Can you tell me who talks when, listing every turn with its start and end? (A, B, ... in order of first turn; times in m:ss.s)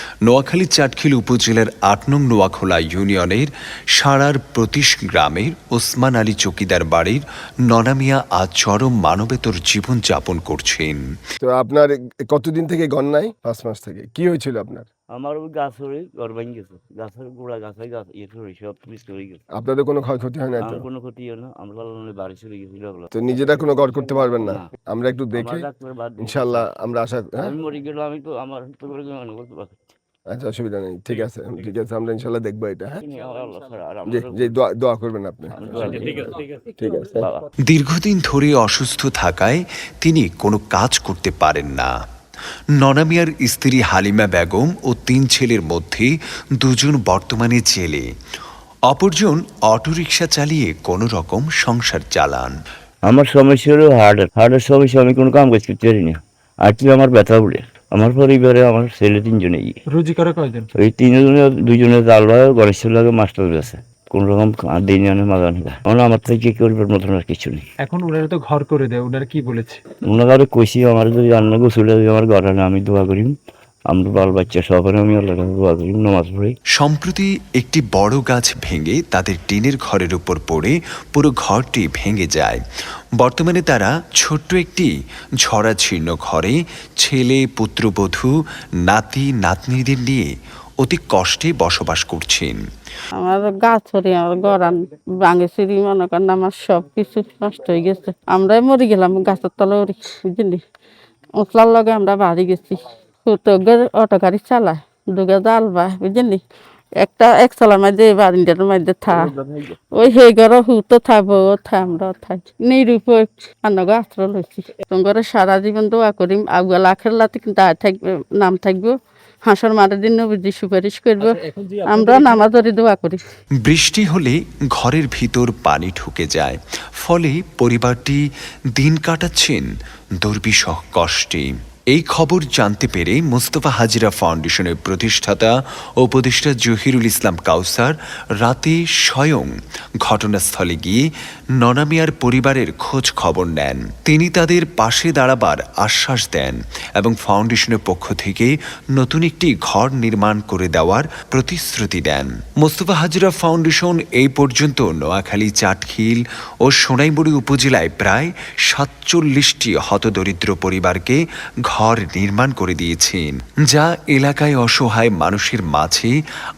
0:00.3-0:11.0 A
0:11.4-0:14.9 B
0:15.1-0:19.4 C
0:19.5-0:20.9 B
0:20.6-0:24.7 C
0:23.1-0:25.7 B
0:25.3-0:26.7 C
0:26.2-0:27.5 B
0:27.4-0:29.8 C
0:30.3-0:33.0 B
0:33.0-0:34.6 C
0:34.1-0:37.3 B
0:35.5-0:36.4 C
0:37.2-0:37.5 C
0:37.7-0:41.9 A
0:42.8-0:48.1 A
0:48.9-0:52.5 A
0:53.1-0:59.8 C
0:59.9-1:00.7 D
1:00.8-1:07.6 C
1:07.8-1:09.8 D
1:10.0-1:13.3 C
1:13.9-1:16.6 C
1:16.8-1:22.6 A
1:23.2-1:24.9 A
1:25.4-1:28.4 A
1:28.9-1:30.3 A
1:30.8-1:32.6 A
1:33.2-1:40.6 E
1:41.4-1:46.4 E
1:47.0-1:49.3 E
1:49.1-1:49.8 C
1:49.9-2:03.2 E
2:03.6-2:09.7 A
2:10.2-2:46.1 A